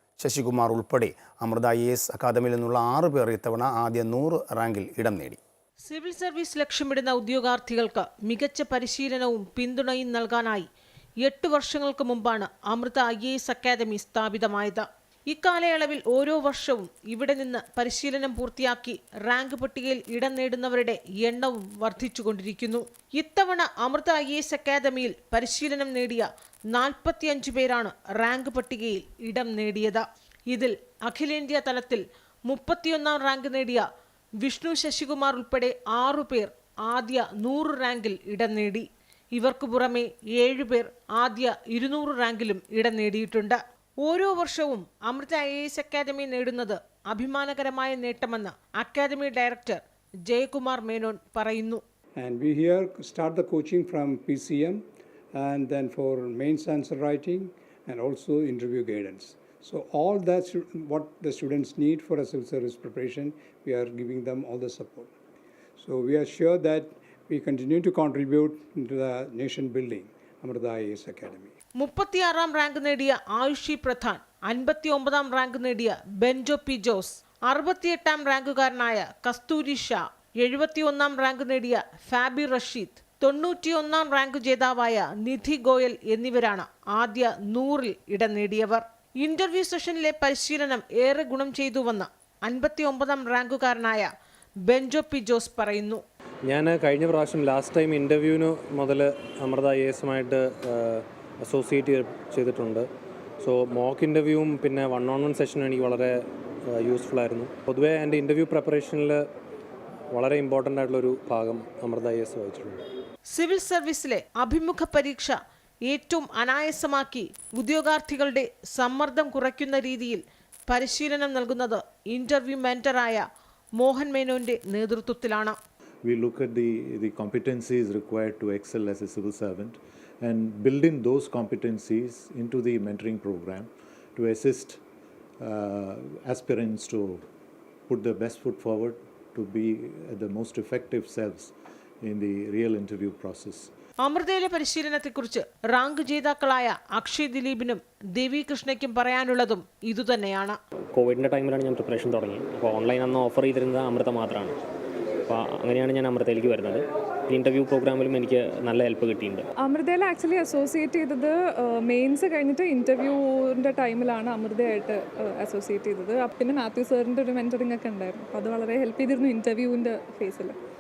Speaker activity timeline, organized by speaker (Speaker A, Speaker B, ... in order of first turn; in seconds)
Speaker A: 0.2-5.4
Speaker B: 5.8-10.7, 11.2-33.9, 34.4-51.8, 71.8-94.1, 94.7-96.0, 113.3-115.4, 115.9-123.2, 123.8-125.6, 144.0-150.6
Speaker C: 52.2-54.8, 55.4-65.1, 65.8-71.5
Speaker D: 96.4-102.9, 103.4-109.2, 110.1-112.8
Speaker E: 126.0-134.8, 135.4-137.2, 137.9-143.7
Speaker F: 150.9-154.6, 155.3-159.5
Speaker G: 159.6-170.6